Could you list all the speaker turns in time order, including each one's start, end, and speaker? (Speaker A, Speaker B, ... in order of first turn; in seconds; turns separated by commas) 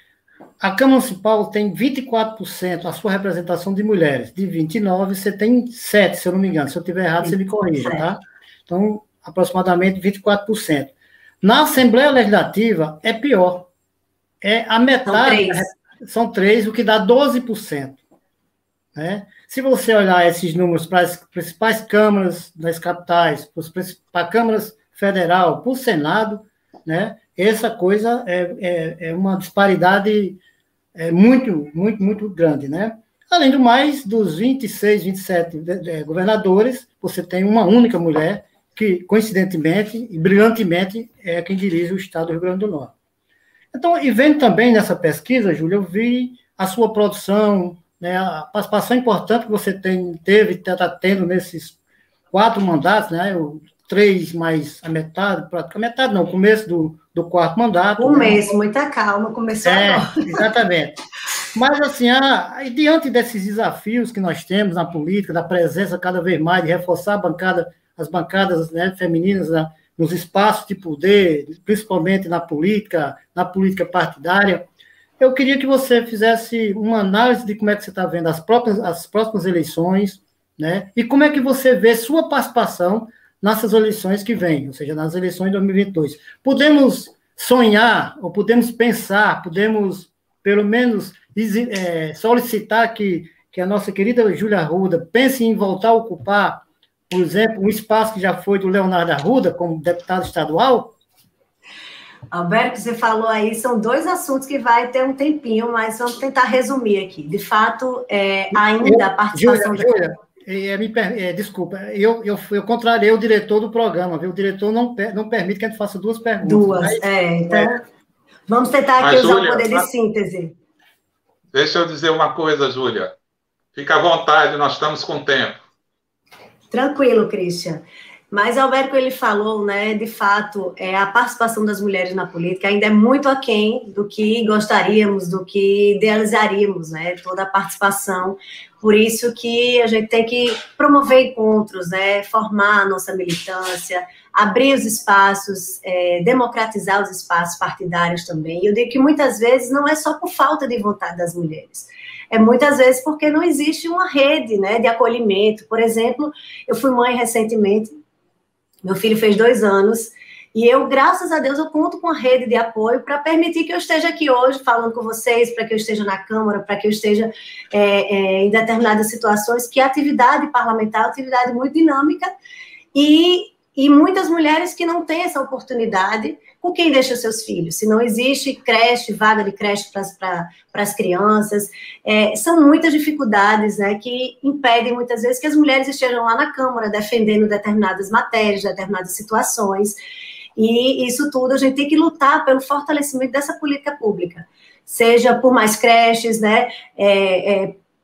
Speaker A: 0.6-13.7, Speaker B: 7.2-8.1, Speaker A: 14.4-18.0, Speaker B: 15.1-15.7, Speaker A: 18.9-30.4, Speaker A: 30.9-42.9, Speaker A: 43.7-51.8, Speaker A: 52.3-58.5, Speaker B: 58.0-60.5, Speaker A: 59.6-61.0, Speaker A: 61.5-74.7, Speaker A: 75.2-101.0, Speaker B: 102.3-110.0, Speaker A: 108.5-117.7, Speaker B: 116.4-117.8, Speaker B: 118.5-120.5, Speaker C: 119.0-119.9, Speaker C: 121.5-123.1, Speaker C: 123.8-125.6, Speaker B: 126.7-158.0, Speaker B: 158.8-172.3, Speaker B: 172.9-190.0, Speaker B: 190.6-197.8